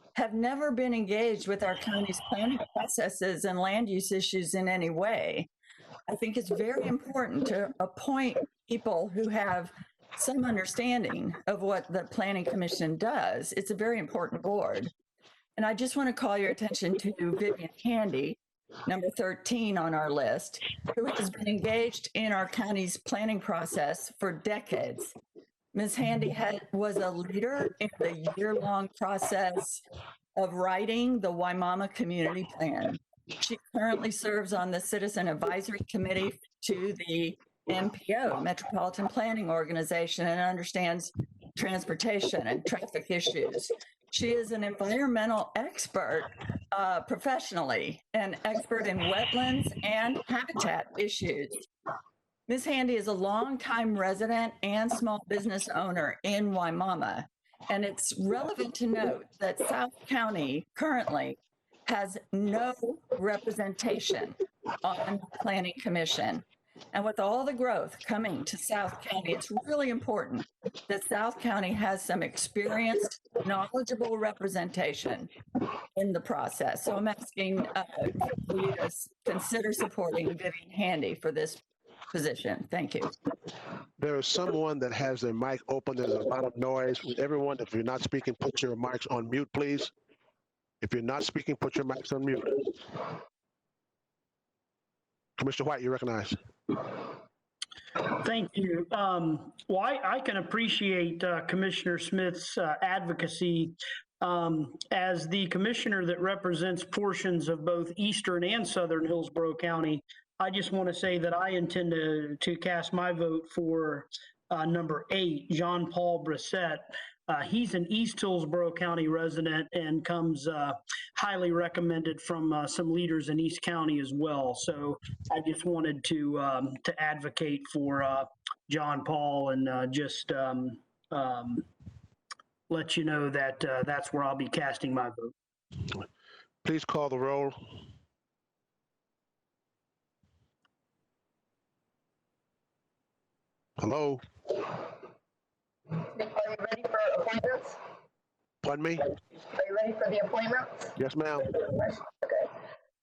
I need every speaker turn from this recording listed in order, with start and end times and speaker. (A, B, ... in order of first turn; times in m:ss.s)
0:00.2-0:05.5 A
0:06.1-0:14.9 A
0:15.6-0:25.2 A
0:25.7-0:29.8 A
0:30.4-0:51.6 A
0:52.5-1:15.3 A
1:15.9-1:23.1 A
1:24.0-1:29.9 B
1:30.8-1:32.8 B
1:35.4-1:36.4 B
1:38.0-2:11.6 C
2:12.7-2:15.3 C
2:16.6-2:17.6 B
2:23.8-2:24.2 B
2:25.9-2:27.8 D
2:28.6-2:29.1 B
2:29.3-2:31.0 D
2:31.0-2:31.6 B
2:31.5-2:32.5 D